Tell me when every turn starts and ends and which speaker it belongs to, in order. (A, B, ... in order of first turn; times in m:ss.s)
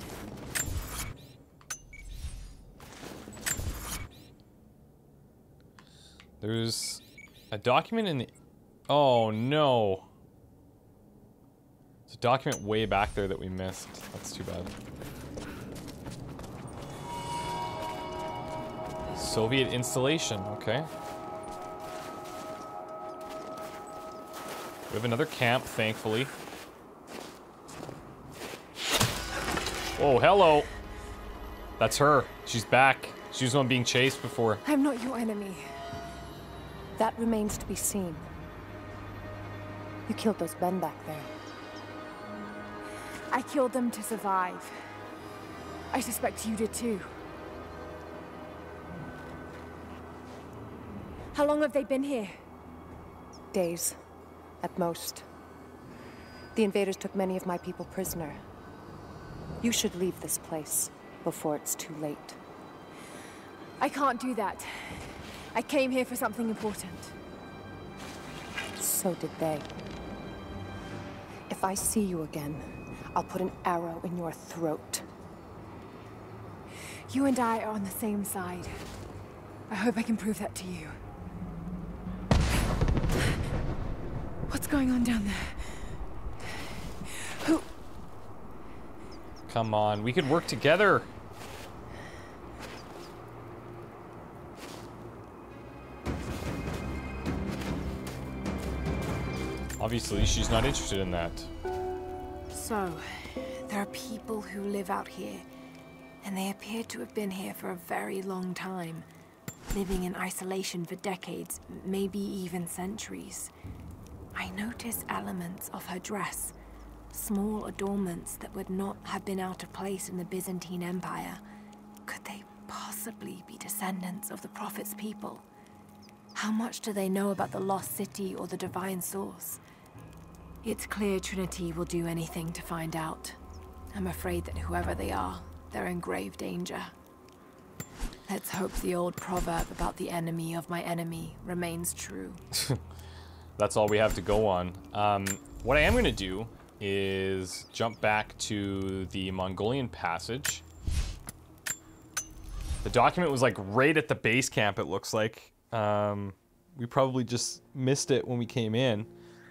0:06.4-0:08.3 A
0:08.9-0:10.1 A
0:12.1-0:14.7 A
0:19.1-0:20.9 A
0:24.9-0:26.3 A
0:30.0-0:30.7 A
0:31.8-0:34.6 A
0:34.6-0:35.6 B
0:37.0-0:38.3 C
0:40.1-0:41.3 C
0:43.3-0:44.7 B
0:45.9-0:47.2 B
0:51.3-0:52.4 B
0:53.5-0:54.0 C
0:54.6-0:55.2 C
0:56.5-0:58.4 C
0:59.6-1:02.4 C
1:03.8-1:07.1 B
1:08.8-1:09.7 C
1:11.5-1:15.1 C
1:17.1-1:18.8 B
1:19.7-1:21.0 B
1:24.5-1:25.9 B
1:27.0-1:27.6 B
1:29.5-1:31.1 A
1:39.8-1:41.5 A
1:42.5-1:45.4 B
1:46.2-1:49.1 B
1:49.7-1:53.5 B
1:54.3-1:56.5 B
1:57.1-2:01.4 B
2:02.0-2:05.4 B
2:06.3-2:09.6 B
2:10.6-2:13.4 B
2:13.9-2:16.9 B
2:18.3-2:22.4 B
2:22.5-2:22.8 A
2:23.6-2:30.6 A
2:32.8-2:39.1 A